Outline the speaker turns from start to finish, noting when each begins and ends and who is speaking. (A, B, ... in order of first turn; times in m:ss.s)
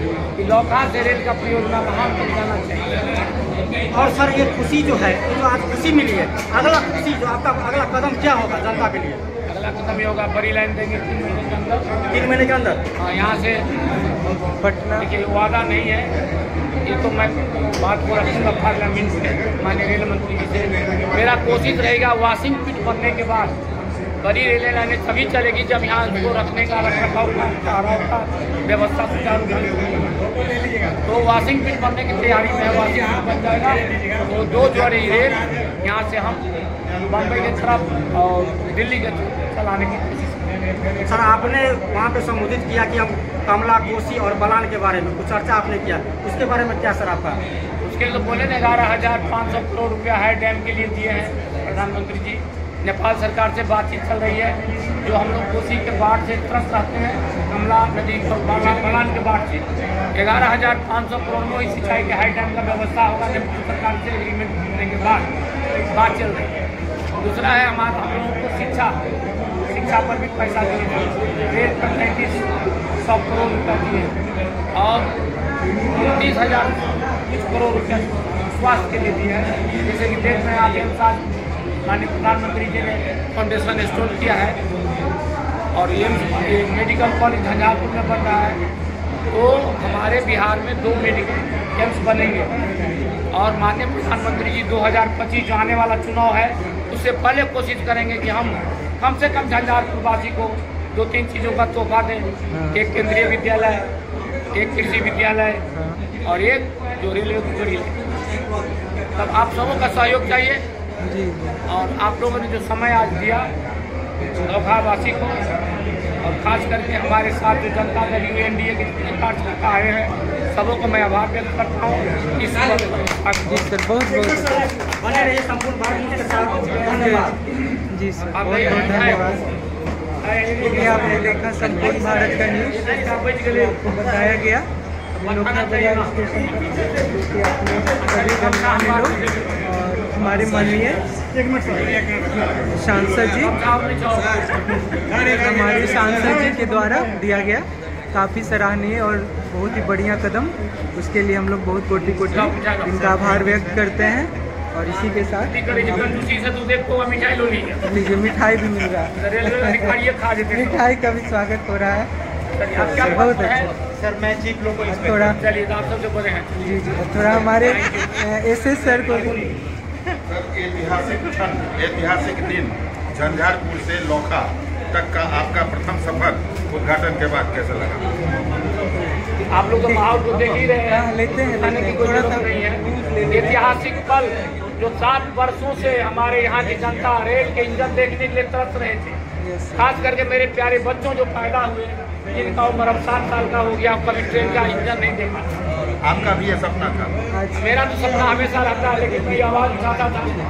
0:00.4-0:03.0 A
0:03.9-0:09.2 B
0:09.5-0:11.9 A
0:12.1-0:12.8 B
0:13.0-0:13.7 A
0:14.4-0:15.1 C
0:15.0-0:16.1 A
0:16.8-0:23.5 A
0:24.2-0:30.1 A
0:31.0-0:36.4 A
0:37.0-0:40.5 A
0:41.0-0:47.4 B
0:47.8-1:09.0 A
1:09.7-1:12.4 A
1:13.0-1:14.1 A
1:14.7-1:15.1 A
1:15.9-1:21.2 A
1:21.8-1:24.6 A
1:25.7-1:28.6 A
1:29.3-1:32.5 A
1:33.3-1:43.9 A
1:42.5-1:42.8 C
1:44.5-1:45.6 A
1:45.7-1:46.0 C
1:46.2-1:48.0 A
1:49.1-1:50.6 A
1:51.0-1:51.6 C
1:51.7-1:53.5 A
1:54.4-1:55.4 A
1:56.2-2:03.6 A
2:03.4-2:04.7 C
2:05.0-2:07.4 B
2:06.9-2:07.3 C
2:07.9-2:09.4 C
2:08.3-2:09.4 A
2:10.2-2:14.1 A
2:10.6-2:14.7 C
2:15.1-2:16.1 A
2:15.2-2:21.0 C
2:18.0-2:19.5 A
2:21.3-2:22.3 B
2:22.7-2:23.6 C
2:23.3-2:24.9 A
2:25.1-2:36.2 C
2:32.2-2:33.3 A
2:35.2-2:37.9 A
2:37.8-2:40.0 C
2:39.1-2:40.8 A
2:40.5-2:42.1 C
2:42.6-2:43.7 A
2:42.7-2:43.7 C
2:43.9-2:45.1 B
2:44.9-2:45.4 C
2:45.1-2:46.5 A
2:46.6-2:49.4 C
2:47.4-2:48.1 A
2:50.3-2:58.1 D
2:58.9-3:03.8 C
2:59.4-3:09.2 A
3:09.4-3:10.1 C
3:09.8-3:15.5 A
3:16.0-3:17.2 D
3:17.3-3:17.7 C
3:17.5-3:20.3 A